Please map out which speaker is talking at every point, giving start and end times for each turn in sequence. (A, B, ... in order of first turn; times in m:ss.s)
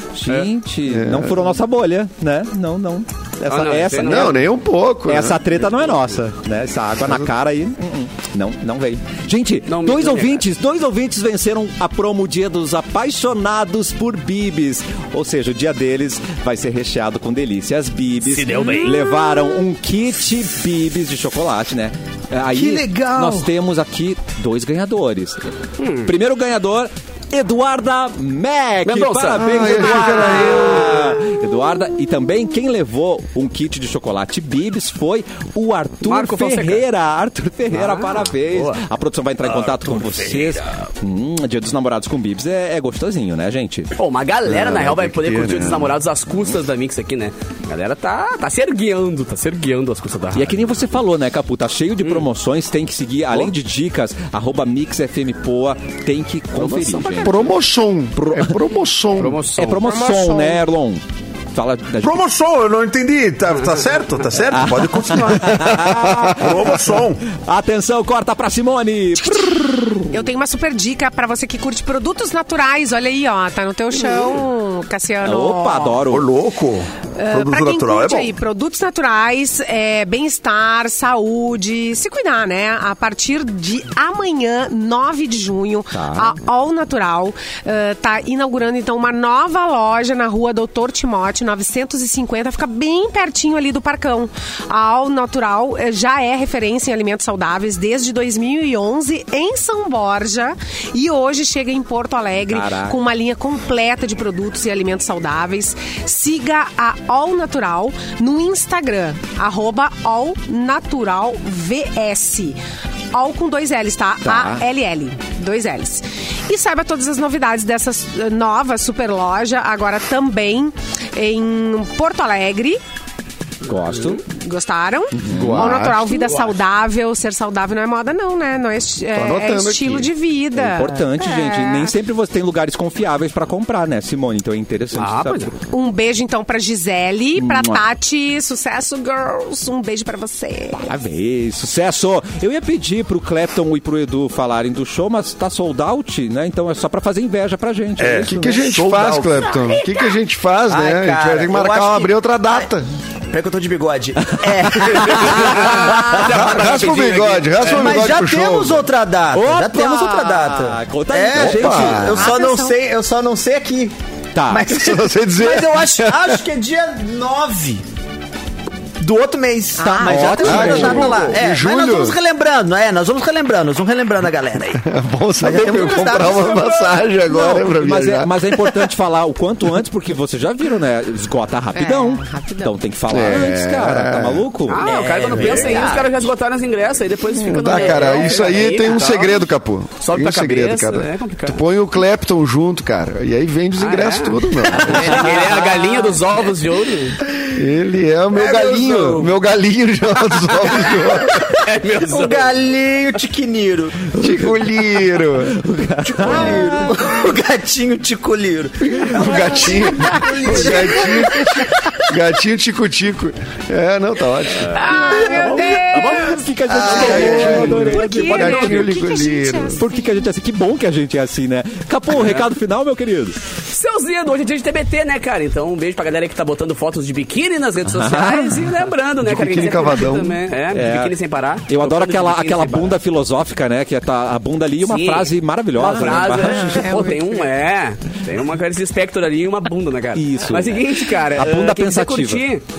0:00.1-0:04.4 A
0:00.9-0:01.3 B
0:03.5-0:04.4 C
0:04.0-0:05.6 B
0:05.1-0:25.5 A
0:09.7-0:10.4 C
0:18.3-0:19.1 C
0:22.5-0:23.5 D
0:25.8-0:26.1 C
0:26.0-0:43.9 A
0:28.8-0:30.8 C
0:29.4-0:31.0 B
0:36.0-0:36.8 C
0:37.7-0:38.8 C
0:39.5-0:40.5 E
0:44.0-0:50.6 C
0:44.5-0:45.9 B
0:50.4-0:57.4 A
0:56.6-0:57.5 C
0:57.2-0:59.4 B
0:59.2-0:59.8 C
0:59.6-1:01.0 A
0:59.8-1:00.6 F
1:01.5-1:02.2 A
1:02.0-1:07.2 E
1:04.5-1:10.2 A
1:05.6-1:06.4 B
1:10.1-1:16.0 F
1:15.2-1:16.3 A
1:16.1-1:18.3 E
1:17.2-1:52.6 F
1:25.9-1:26.4 A
1:42.5-1:43.0 A
1:53.1-2:02.8 F
1:54.2-1:54.7 A
2:03.6-2:04.2 A
2:04.3-2:11.9 F
2:05.2-2:05.8 A
2:05.3-2:06.2 B
2:09.1-2:10.1 B
2:10.6-2:15.5 A
2:15.0-2:15.5 C
2:15.7-2:20.9 F
2:17.4-2:17.8 A
2:20.8-2:28.7 A
2:28.0-2:29.6 E
2:28.3-2:32.9 B
2:30.7-2:32.7 D
2:33.3-2:36.4 D
2:34.3-2:35.2 A
2:35.4-2:38.0 C
2:36.2-2:38.9 B
2:37.6-2:43.9 D
2:39.3-2:42.2 A
2:41.3-2:42.4 B
2:42.1-2:42.8 F
2:44.3-2:44.6 A
2:44.5-2:47.8 D
2:44.7-2:46.4 B
2:49.0-2:54.8 D
2:49.8-2:50.8 F
2:50.0-2:51.3 A
2:50.4-2:52.2 B
2:54.8-2:58.6 B
2:55.4-2:57.0 D
2:57.3-3:04.8 A
3:01.7-3:02.8 F
3:03.1-3:04.5 B
3:04.7-3:09.5 C
3:04.8-3:06.2 D
3:05.6-3:06.0 F
3:07.4-3:15.1 B
3:10.0-3:11.6 C
3:13.8-3:17.2 C
3:14.9-3:15.6 A
3:17.5-3:21.6 B
3:18.4-3:19.3 D
3:20.6-3:22.6 C
3:22.1-3:24.1 D
3:24.1-3:25.6 B
3:25.5-3:26.9 A
3:26.0-3:31.7 D
3:29.0-3:34.8 B
3:34.8-3:36.4 F
3:34.8-3:36.4 C
3:35.4-3:38.9 A
3:36.7-3:39.8 B
3:36.9-3:37.2 C
3:36.9-3:40.3 F
3:39.8-3:43.4 A
3:42.1-3:42.5 C
3:43.7-3:53.0 C
3:47.8-3:48.7 A
3:49.2-3:50.4 B
3:50.7-3:51.1 A
3:51.7-3:57.1 A
3:54.8-4:02.6 C
3:56.5-3:57.5 F
4:00.2-4:02.4 A